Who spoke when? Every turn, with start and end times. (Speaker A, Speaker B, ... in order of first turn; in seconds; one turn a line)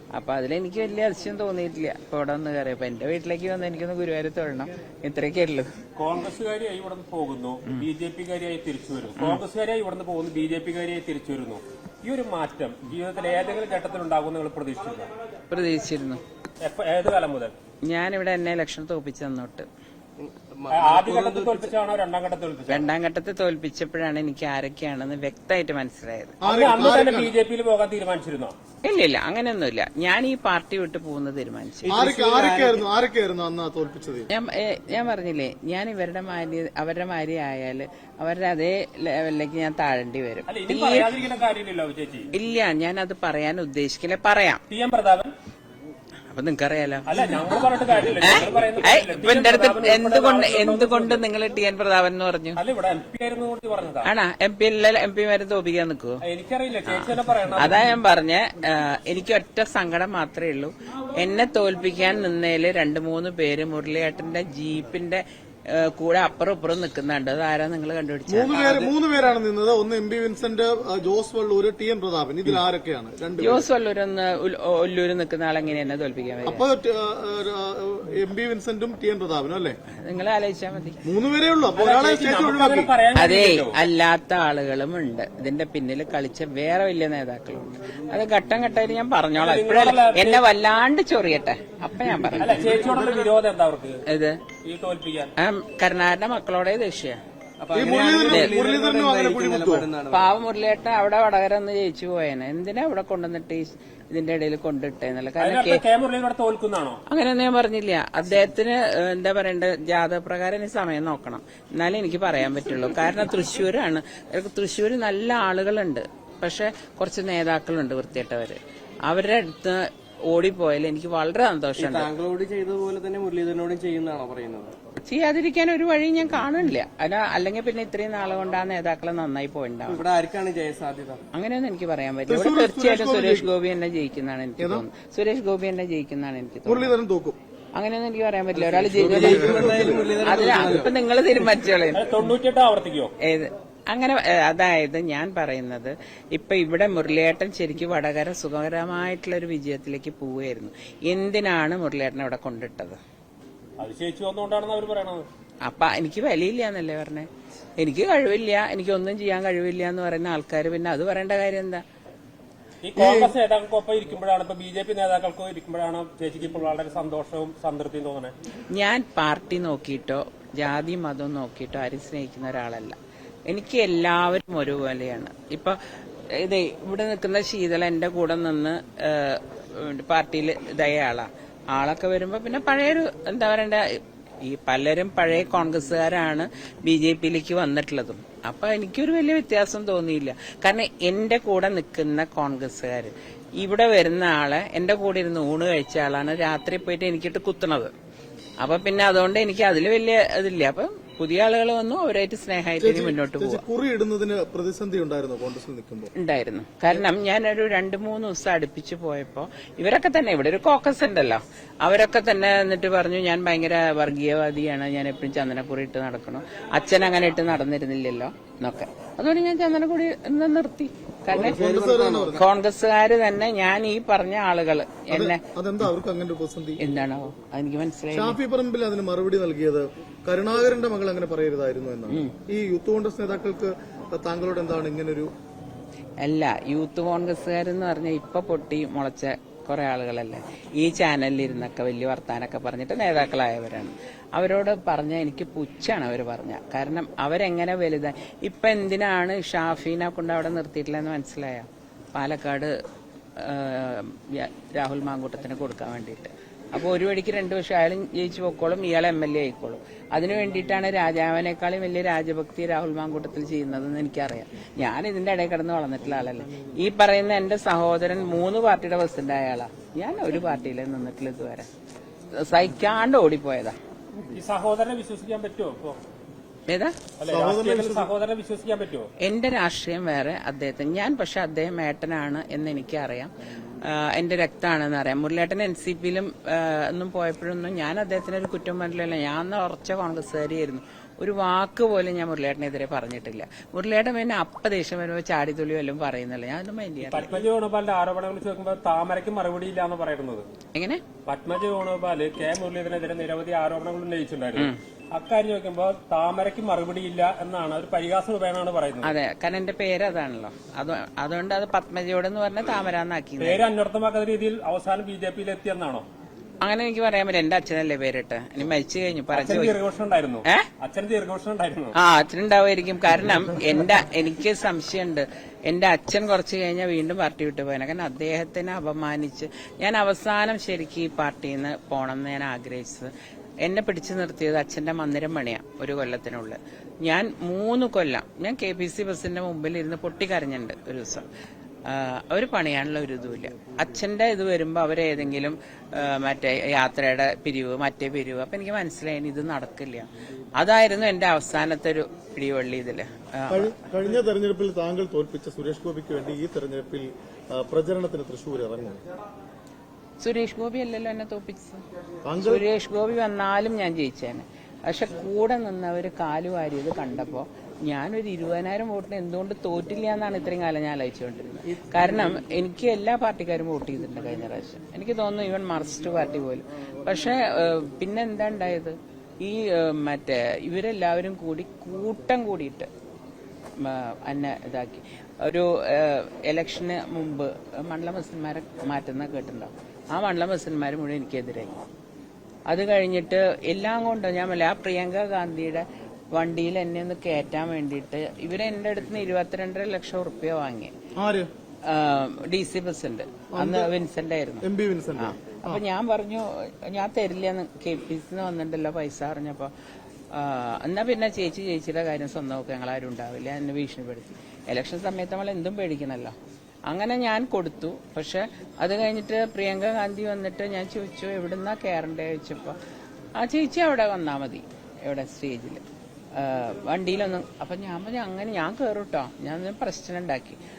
Speaker A: 0.1-5.8
Speaker B: 6.0-15.1
Speaker A: 15.5-16.2
Speaker B: 16.6-17.5
Speaker A: 17.8-19.7
Speaker C: 20.2-21.7
Speaker B: 20.7-22.9
Speaker A: 22.7-26.4
Speaker D: 26.4-27.3
Speaker B: 26.4-28.5
Speaker A: 28.8-32.0
Speaker D: 31.9-34.3
Speaker C: 31.9-32.7
Speaker A: 34.3-41.1
Speaker B: 40.5-42.3
Speaker A: 42.3-44.6
Speaker B: 44.7-45.3
Speaker A: 46.3-47.2
Speaker B: 47.1-51.2
Speaker A: 48.2-52.6
Speaker B: 52.6-54.1
Speaker A: 54.0-56.2
Speaker B: 56.2-57.9
Speaker A: 57.6-68.9
Speaker D: 68.3-73.7
Speaker A: 73.4-76.6
Speaker D: 76.5-79.8
Speaker A: 80.0-81.0
Speaker D: 81.0-83.0
Speaker B: 81.8-83.8
Speaker A: 83.2-92.8
Speaker B: 89.4-90.4
Speaker D: 92.0-93.3
Speaker B: 92.4-94.0
Speaker A: 94.1-94.4
Speaker B: 94.6-95.3
Speaker A: 95.4-97.2
Speaker C: 97.6-100.3
Speaker D: 97.7-99.9
Speaker A: 97.8-98.5
Speaker A: 100.1-105.8
Speaker B: 105.4-107.0
Speaker A: 107.1-122.1
Speaker C: 121.8-124.7
Speaker A: 125.0-130.1
Speaker C: 129.9-131.2
Speaker A: 131.3-136.9
Speaker D: 132.3-133.5
Speaker D: 134.6-134.9
Speaker D: 136.7-137.4
Speaker A: 137.8-142.1
Speaker C: 138.6-140.9
Speaker D: 139.0-140.2
Speaker B: 141.9-143.1
Speaker A: 143.2-153.0
Speaker B: 153.8-155.2
Speaker A: 155.7-161.8
Speaker B: 162.8-168.3
Speaker D: 163.0-163.3
Speaker A: 168.7-173.0
Speaker A: 173.5-197.9
Speaker A: 198.6-203.6
Speaker D: 202.8-206.1
Speaker A: 206.2-221.7
Speaker D: 221.3-222.5
Speaker C: 221.4-222.3
Speaker A: 222.3-225.4
Speaker D: 225.1-226.8
Speaker A: 226.8-228.4
Speaker D: 228.1-235.3
Speaker A: 236.2-252.7
Speaker A: 253.4-271.7
Speaker A: 272.3-273.8
Speaker B: 274.2-276.0
Speaker A: 276.7-276.9
Speaker B: 277.2-279.1
Speaker D: 277.3-278.1
Speaker A: 279.2-297.4
Speaker B: 297.1-300.5
Speaker A: 300.7-301.0
Speaker B: 301.3-309.1
Speaker A: 309.0-313.6
Speaker B: 313.4-316.1
Speaker A: 316.6-319.8
Speaker B: 319.3-321.9
Speaker A: 322.0-333.1
Speaker A: 333.6-341.3
Speaker A: 341.9-353.8
Speaker D: 353.5-359.0
Speaker A: 360.2-361.8
Speaker D: 362.2-362.7
Speaker A: 362.4-382.9
Speaker A: 383.8-391.8
Speaker A: 392.7-400.9
Speaker D: 401.2-401.5
Speaker A: 401.9-404.7
Speaker D: 403.5-403.9
Speaker D: 404.6-405.8
Speaker A: 405.2-409.7
Speaker A: 410.3-416.4
Speaker A: 416.9-422.8
Speaker A: 423.4-425.8
Speaker A: 426.4-430.6